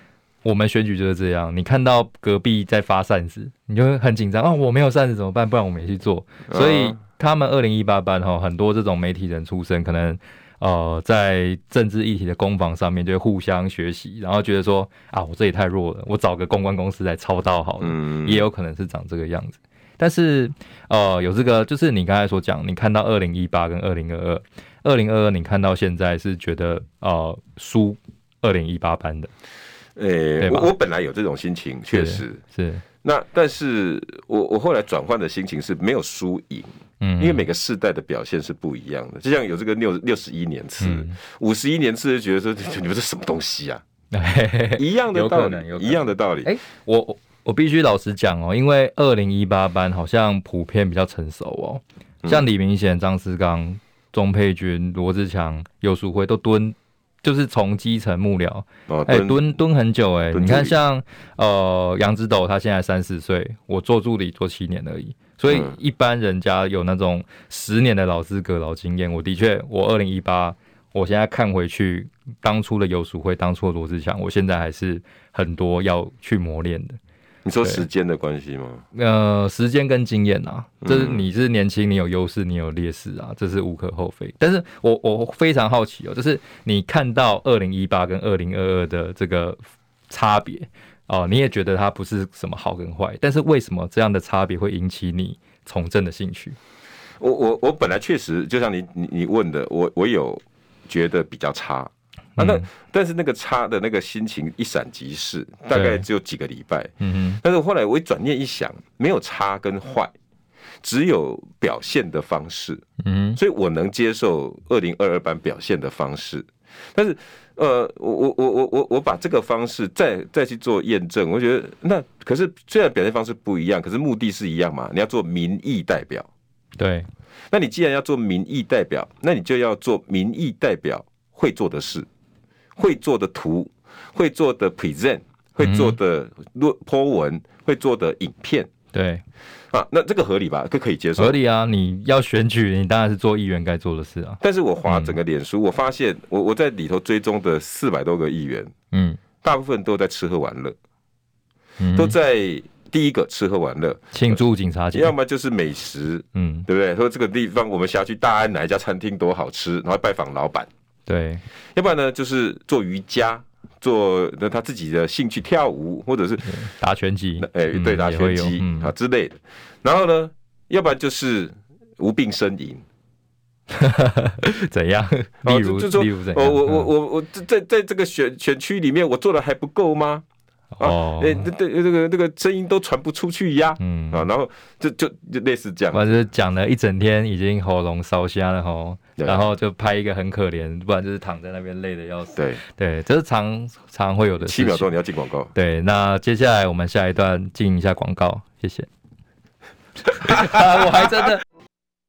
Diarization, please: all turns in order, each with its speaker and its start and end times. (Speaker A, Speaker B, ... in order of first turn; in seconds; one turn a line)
Speaker A: 0.4-29.3
Speaker B: 6.5-7.0
Speaker B: 17.8-18.4
Speaker B: 29.9-32.4
Speaker A: 30.4-30.7
Speaker A: 31.9-32.8
Speaker B: 33.0-43.8
Speaker A: 37.0-37.4
Speaker A: 40.8-41.1
Speaker A: 44.1-77.0
Speaker B: 44.8-46.5
Speaker B: 58.9-59.4
Speaker B: 60.3-60.8
Speaker B: 65.5-65.8
Speaker B: 77.4-78.8
Speaker A: 78.9-96.5
Speaker B: 80.8-81.2
Speaker B: 97.2-110.1
Speaker A: 102.4-102.7
Speaker A: 105.7-106.0
Speaker A: 107.0-107.4
Speaker B: 110.8-112.8
Speaker A: 113.0-113.4
Speaker B: 113.3-126.3
Speaker A: 126.8-127.1
Speaker B: 127.5-132.1
Speaker B: 132.8-138.7
Speaker A: 135.6-135.9
Speaker A: 138.9-139.2
Speaker B: 139.7-141.4
Speaker A: 141.2-145.2
Speaker B: 144.4-148.7
Speaker A: 148.9-149.2
Speaker B: 149.4-150.8
Speaker A: 151.8-152.1
Speaker B: 151.9-154.4
Speaker A: 154.1-155.1
Speaker B: 154.9-160.7
Speaker A: 156.3-156.7
Speaker A: 161.1-161.4
Speaker B: 161.8-166.5
Speaker A: 166.4-168.9
Speaker B: 167.4-172.8
Speaker A: 173.7-176.9
Speaker B: 175.4-180.2
Speaker A: 180.7-181.5
Speaker B: 180.8-186.1
Speaker A: 183.8-184.2
Speaker A: 185.9-194.9
Speaker B: 189.2-189.4
Speaker B: 192.3-192.6
Speaker B: 194.4-195.5
Speaker A: 195.5-198.9
Speaker A: 200.1-201.4
Speaker B: 200.2-200.8